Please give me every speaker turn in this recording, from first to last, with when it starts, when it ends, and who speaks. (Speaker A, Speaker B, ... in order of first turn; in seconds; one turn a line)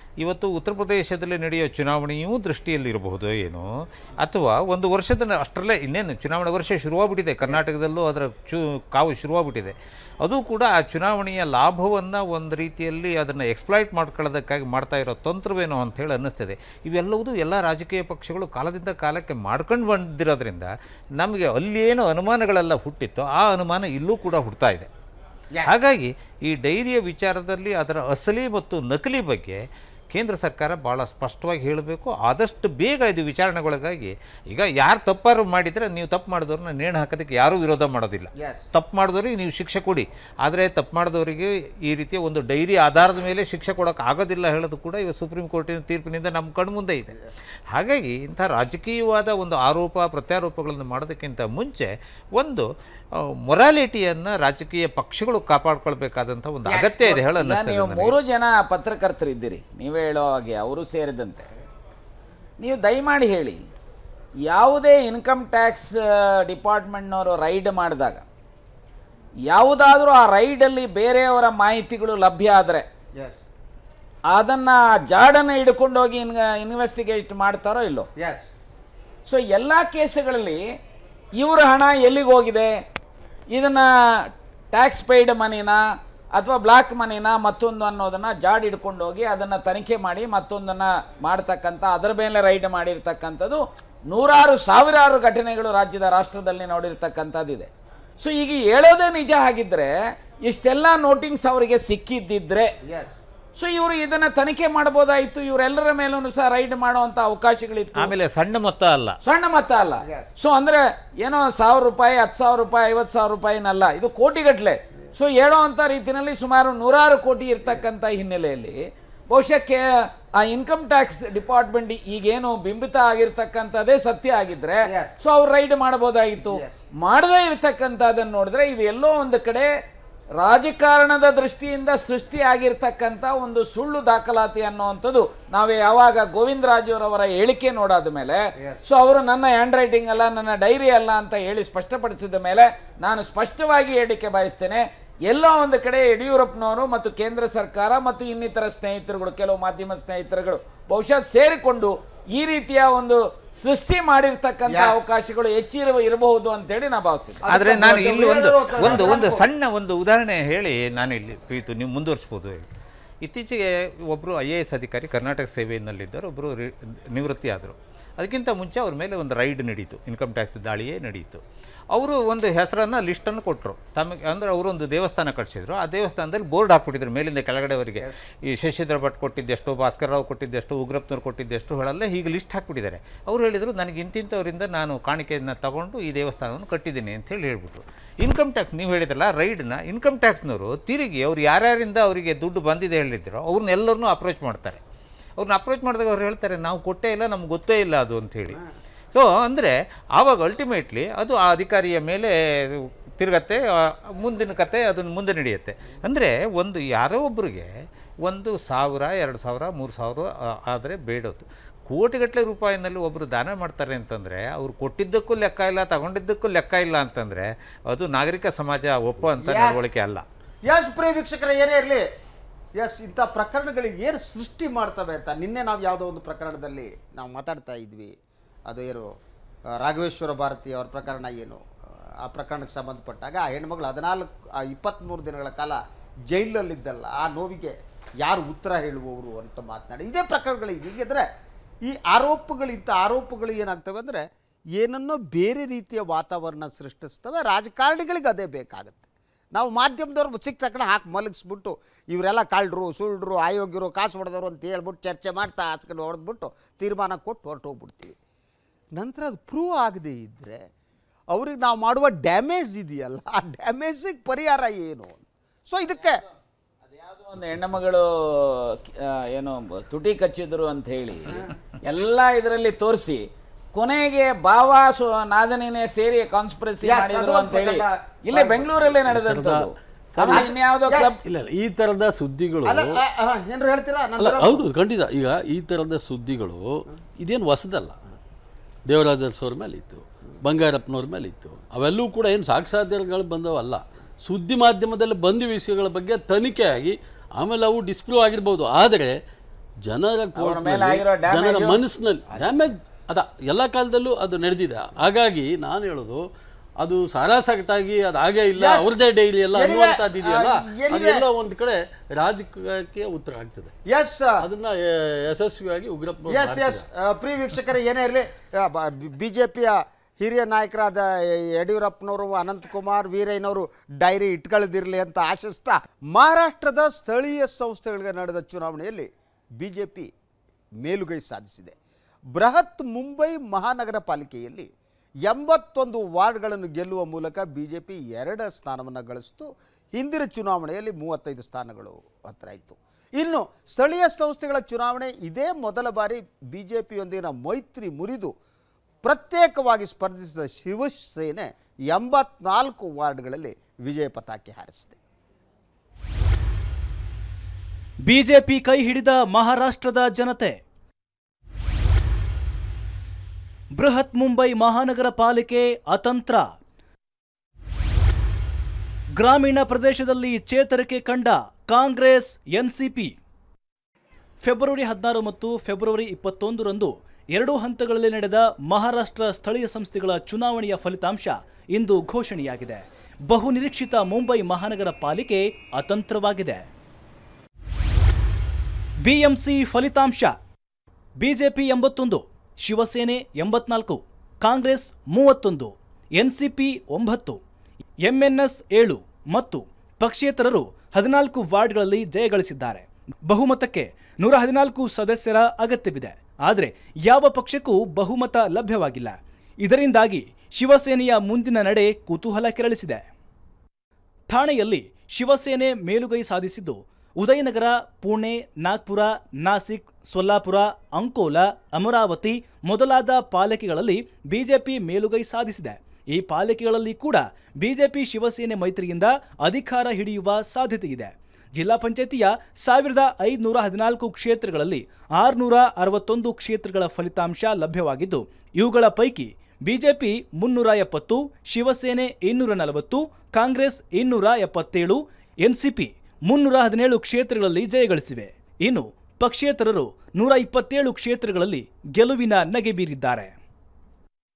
Speaker A: 0.2-3.7
Speaker A: 4.2-24.9
Speaker B: 25.5-25.8
Speaker A: 25.6-29.6
Speaker A: 30.1-47.2
Speaker B: 38.4-38.6
Speaker A: 47.7-58.1
Speaker C: 56.7-61.5
Speaker C: 62.6-63.6
Speaker C: 64.5-68.2
Speaker C: 69.5-72.8
Speaker B: 73.2-73.4
Speaker C: 74.3-78.1
Speaker B: 78.2-78.5
Speaker C: 79.3-80.6
Speaker C: 81.4-82.7
Speaker C: 83.5-83.9
Speaker C: 84.7-85.8
Speaker C: 86.4-102.7
Speaker B: 102.8-103.2
Speaker C: 103.6-108.1
Speaker A: 108.0-109.2
Speaker C: 109.2-119.8
Speaker C: 120.3-129.7
Speaker B: 124.9-125.1
Speaker B: 126.4-126.8
Speaker C: 130.4-157.4
Speaker B: 154.7-155.1
Speaker B: 157.4-159.5
Speaker A: 157.5-162.7
Speaker A: 163.2-194.8
Speaker A: 195.4-207.7
Speaker A: 208.2-220.2
Speaker B: 219.4-219.9
Speaker B: 220.7-222.1
Speaker B: 222.8-228.2
Speaker B: 228.7-229.2
Speaker B: 229.8-235.8
Speaker B: 236.3-241.3
Speaker B: 241.8-244.2
Speaker B: 244.8-258.2
Speaker B: 258.9-260.6
Speaker B: 261.3-266.2
Speaker C: 266.9-281.2
Speaker B: 276.8-278.7
Speaker D: 279.1-280.6
Speaker B: 280.3-281.2
Speaker D: 281.3-282.9
Speaker B: 282.6-284.6
Speaker D: 284.2-288.0
Speaker D: 288.9-299.1
Speaker D: 299.9-306.2
Speaker C: 300.4-301.8
Speaker D: 306.8-313.7
Speaker B: 308.6-309.0
Speaker B: 309.5-311.2
Speaker B: 313.9-314.4
Speaker D: 314.4-316.8
Speaker B: 316.3-330.1
Speaker B: 330.8-331.8
Speaker B: 332.3-334.7
Speaker B: 335.2-348.4
Speaker B: 349.0-355.0
Speaker E: 358.1-360.6
Speaker E: 363.8-366.5
Speaker E: 369.2-373.2
Speaker E: 374.4-386.7
Speaker E: 389.0-390.4
Speaker E: 391.2-397.4
Speaker E: 398.0-413.0
Speaker E: 414.3-453.3